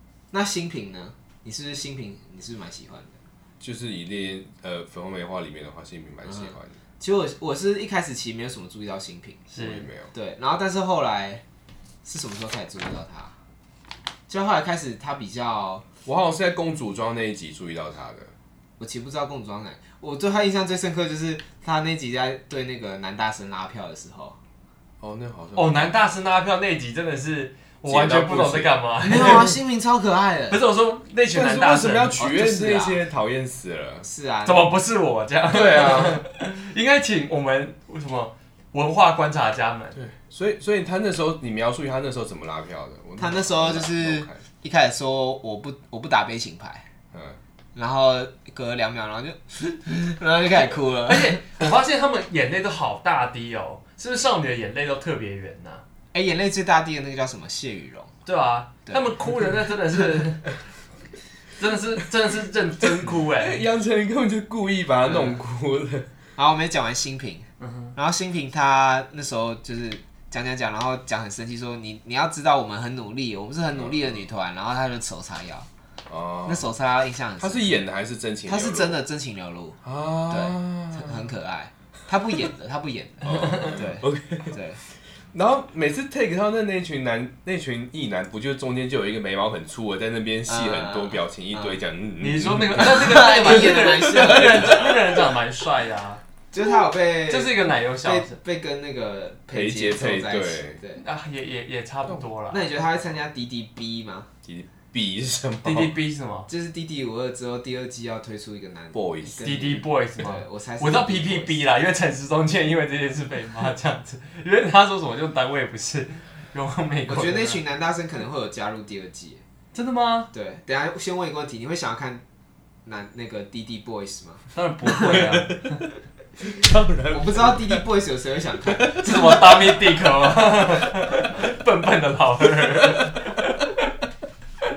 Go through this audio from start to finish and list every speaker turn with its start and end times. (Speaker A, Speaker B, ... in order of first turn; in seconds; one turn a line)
Speaker A: 0.3-3.2
Speaker B: 3.6-6.8
Speaker A: 6.4-9.5
Speaker C: 9.5-9.9
Speaker B: 9.6-10.1
Speaker A: 10.1-11.4
Speaker A: 12.0-13.3
Speaker A: 14.3-15.9
Speaker B: 16.0-18.3
Speaker A: 18.8-24.4
Speaker B: 25.0-25.9
Speaker C: 25.6-29.6
Speaker B: 27.9-28.7
Speaker A: 29.0-30.6
Speaker C: 30.5-32.2
Speaker B: 31.3-34.1
Speaker A: 32.2-33.0
Speaker A: 34.0-34.7
Speaker C: 34.4-40.0
Speaker B: 35.5-36.2
Speaker B: 39.9-44.4
Speaker A: 43.2-46.9
Speaker B: 47.1-47.4
Speaker A: 47.7-51.4
Speaker C: 51.0-55.8
Speaker A: 56.1-58.1
Speaker C: 58.2-60.5
Speaker A: 58.9-59.1
Speaker C: 61.6-63.6
Speaker B: 62.8-66.1
Speaker A: 66.4-75.7
Speaker C: 67.6-67.9
Speaker B: 76.1-76.7
Speaker A: 76.4-77.8
Speaker B: 77.4-79.0
Speaker A: 78.5-84.8
Speaker B: 79.8-81.3
Speaker B: 83.2-84.5
Speaker B: 85.3-94.8
Speaker A: 90.5-91.7
Speaker C: 92.2-96.2
Speaker A: 92.7-95.0
Speaker A: 96.5-101.0
Speaker C: 97.3-98.4
Speaker B: 99.5-100.8
Speaker C: 101.0-102.7
Speaker A: 102.5-104.3
Speaker B: 104.4-105.9
Speaker C: 105.6-106.5
Speaker A: 106.5-111.6
Speaker B: 108.9-109.4
Speaker C: 109.4-117.6
Speaker A: 117.1-119.4
Speaker C: 119.7-120.3
Speaker A: 120.3-122.2
Speaker A: 122.8-125.3
Speaker C: 124.5-125.8
Speaker B: 126.4-127.8
Speaker A: 127.1-129.0
Speaker B: 128.7-129.8
Speaker C: 128.9-133.7